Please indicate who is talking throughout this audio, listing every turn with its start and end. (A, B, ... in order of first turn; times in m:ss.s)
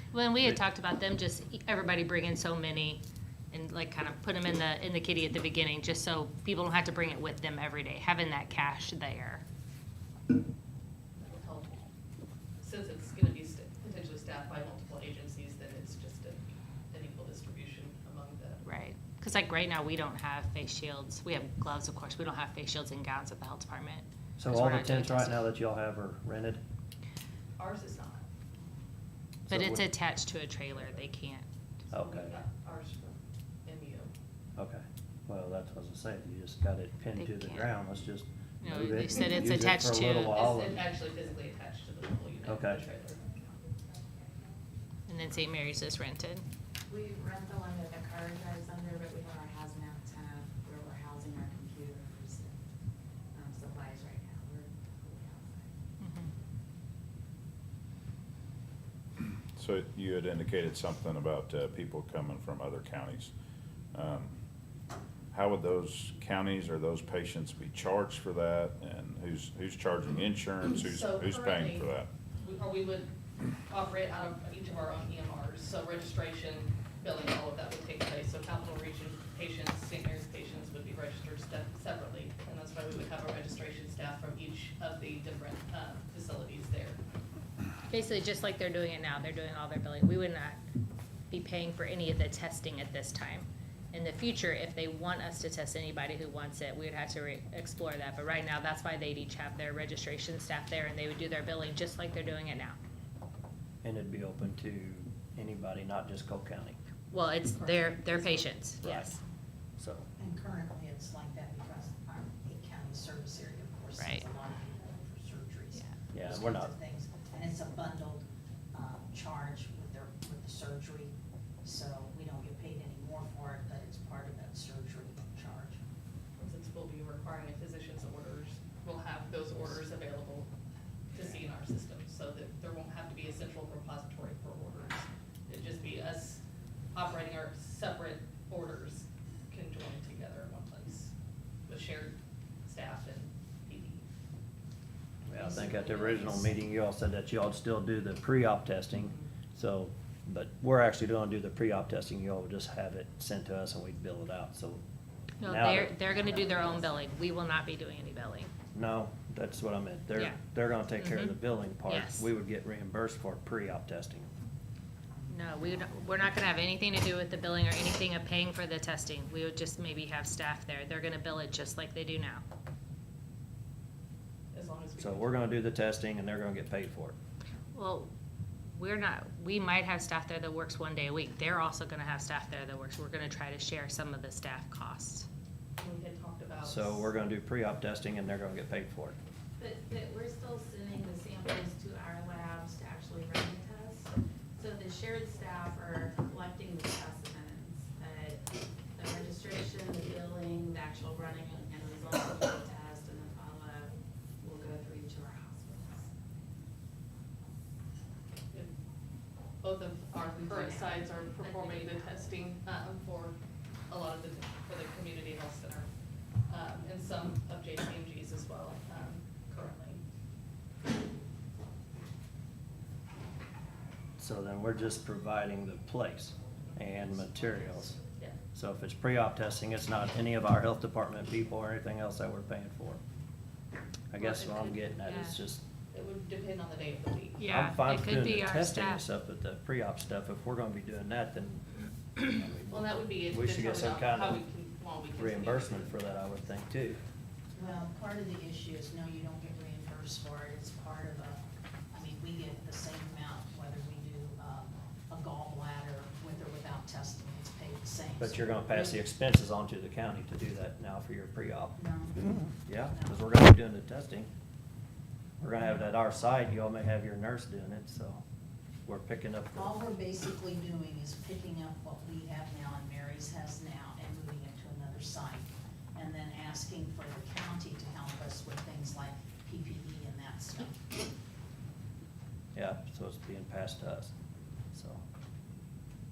0:00.1-0:09.4 A
0:11.1-0:11.9 B
0:12.6-0:18.6 B
0:18.6-0:25.5 A
0:24.4-0:26.6 C
0:27.6-0:28.2 B
0:29.5-0:29.9 C
0:29.5-0:31.5 A
0:31.9-0:32.4 C
0:31.9-0:34.1 B
0:34.6-0:40.8 C
0:37.1-0:37.7 A
0:38.6-0:40.5 A
0:40.3-0:43.2 B
0:42.4-0:42.8 C
0:45.1-0:46.4 A
0:46.9-0:52.5 D
0:53.3-0:55.7 D
0:56.0-0:56.3 A
0:59.5-1:03.3 E
1:03.9-1:04.4 E
1:05.3-1:12.1 E
1:10.6-1:13.1 B
1:13.7-1:27.0 B
1:27.9-1:30.6 A
1:31.3-1:42.8 A
1:43.8-1:46.8 C
1:47.1-1:49.2 A
1:47.6-1:48.5 F
1:48.8-1:49.2 C
1:49.8-1:50.1 C
1:50.2-2:01.1 F
1:54.0-1:54.2 A
1:56.1-1:56.7 C
2:01.6-2:05.8 F
2:06.4-2:10.5 B
2:11.1-2:16.4 B
2:16.9-2:21.1 B
2:21.7-2:24.0 B
2:25.2-2:34.8 C
2:25.4-2:26.0 F
2:25.4-2:26.3 B
2:35.4-2:38.5 A
2:35.4-2:36.0 C
2:36.1-2:36.9 F
2:38.7-2:44.3 C
2:40.2-2:40.4 A
2:41.0-2:42.3 A
2:45.3-2:52.4 A
2:54.5-2:55.3 B
2:55.0-2:57.2 C
2:57.7-2:58.1 A
2:58.7-3:05.3 A
3:05.8-3:07.1 B
3:06.6-3:09.2 C
3:09.6-3:18.4 D
3:19.0-3:26.1 D
3:29.6-3:33.4 B
3:30.2-3:32.2 D
3:33.9-3:35.9 B
3:36.5-3:40.0 B
3:44.2-3:48.0 C
3:48.6-3:53.0 C
3:54.1-3:55.6 C
3:54.2-3:55.4 A
3:55.9-3:57.4 B
3:57.4-3:59.1 A
3:57.4-4:04.4 C
4:02.7-4:06.0 B
4:05.2-4:07.0 C
4:07.5-4:19.0 F
4:18.2-4:21.8 C
4:21.8-4:23.2 F
4:22.6-4:24.3 C
4:25.4-4:28.2 C
4:28.8-4:29.7 C
4:29.5-4:40.8 F
4:42.5-4:44.1 C
4:44.7-4:45.0 C